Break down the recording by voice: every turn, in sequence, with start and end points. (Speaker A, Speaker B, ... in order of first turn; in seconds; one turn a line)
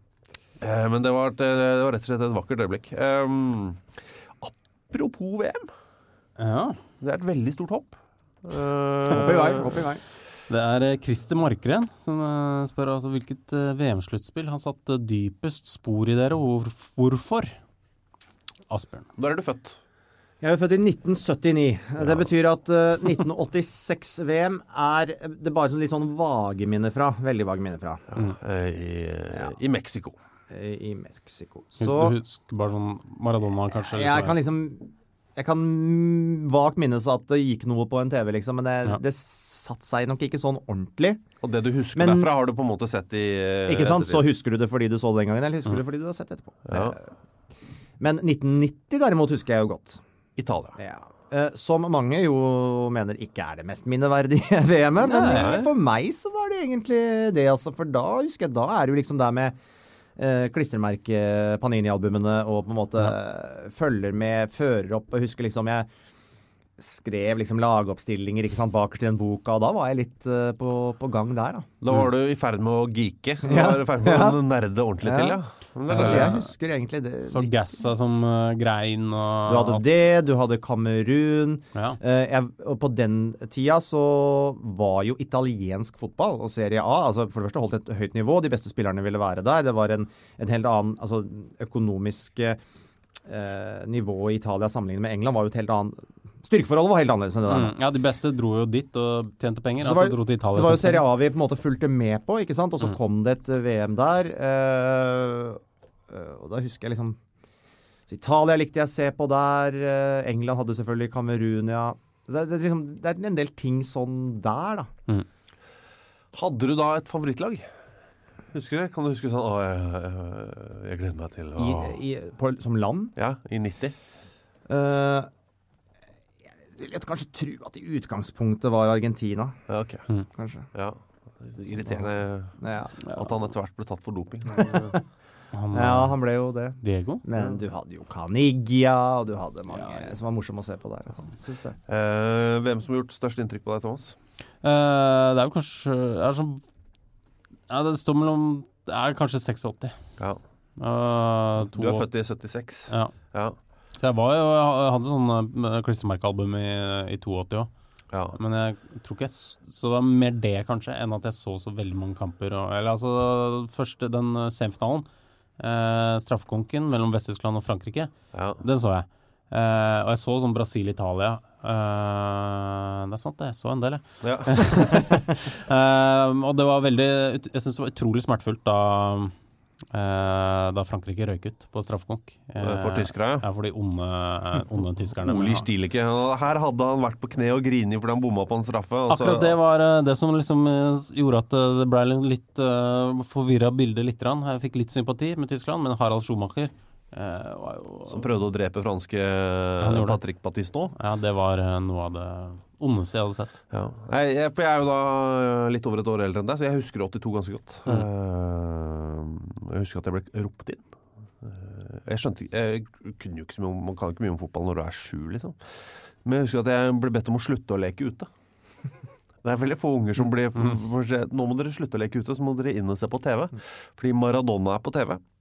Speaker A: 0.6-5.7
Speaker B: 6.4-6.8
Speaker A: 7.0-9.8
Speaker C: 9.1-10.0
Speaker B: 10.5-17.6
Speaker B: 18.7-19.1
Speaker A: 19.2-19.8
Speaker C: 20.4-28.0
Speaker A: 28.1-30.1
Speaker C: 30.5-32.1
Speaker B: 31.8-34.4
Speaker C: 33.8-41.2
Speaker A: 41.4-44.3
Speaker C: 41.9-42.3
Speaker C: 43.7-47.0
Speaker A: 46.7-47.0
Speaker C: 48.0-50.0
Speaker A: 50.4-50.8
Speaker C: 50.8-59.5
Speaker A: 55.1-55.7
Speaker B: 55.1-55.4
Speaker C: 60.2-65.9
Speaker C: 66.8-71.7
Speaker A: 71.8-76.4
Speaker C: 73.4-74.4
Speaker C: 75.0-77.6
Speaker B: 75.9-76.5
Speaker B: 77.3-79.8
Speaker C: 79.5-92.6
Speaker C: 93.2-97.7
Speaker B: 97.5-101.0
Speaker C: 99.8-107.2
Speaker C: 108.1-114.9
Speaker A: 116.3-117.7
Speaker A: 118.5-122.0
Speaker C: 121.6-123.1
Speaker A: 123.2-123.9
Speaker C: 124.7-125.3
Speaker C: 126.8-129.6
Speaker A: 129.7-130.0
Speaker C: 130.3-130.7
Speaker A: 130.7-134.9
Speaker C: 131.9-132.9
Speaker C: 134.6-134.9
Speaker B: 135.5-136.2
Speaker C: 135.7-141.8
Speaker B: 136.8-137.2
Speaker B: 139.7-140.1
Speaker A: 141.9-144.2
Speaker B: 144.6-146.6
Speaker B: 147.7-149.9
Speaker B: 150.8-152.1
Speaker A: 151.6-153.6
Speaker B: 152.9-153.1
Speaker B: 154.0-157.7
Speaker A: 158.1-158.4
Speaker B: 158.3-165.1
Speaker B: 165.6-179.3
Speaker A: 168.3-168.6
Speaker A: 174.2-174.8
Speaker B: 179.9-185.7
Speaker A: 182.6-183.4
Speaker A: 185.2-189.6
Speaker B: 189.1-198.2
Speaker A: 198.1-200.9
Speaker B: 199.8-200.2
Speaker B: 200.9-203.6
Speaker A: 203.7-210.8
Speaker A: 211.4-215.6
Speaker A: 216.2-218.3
Speaker A: 219.4-225.2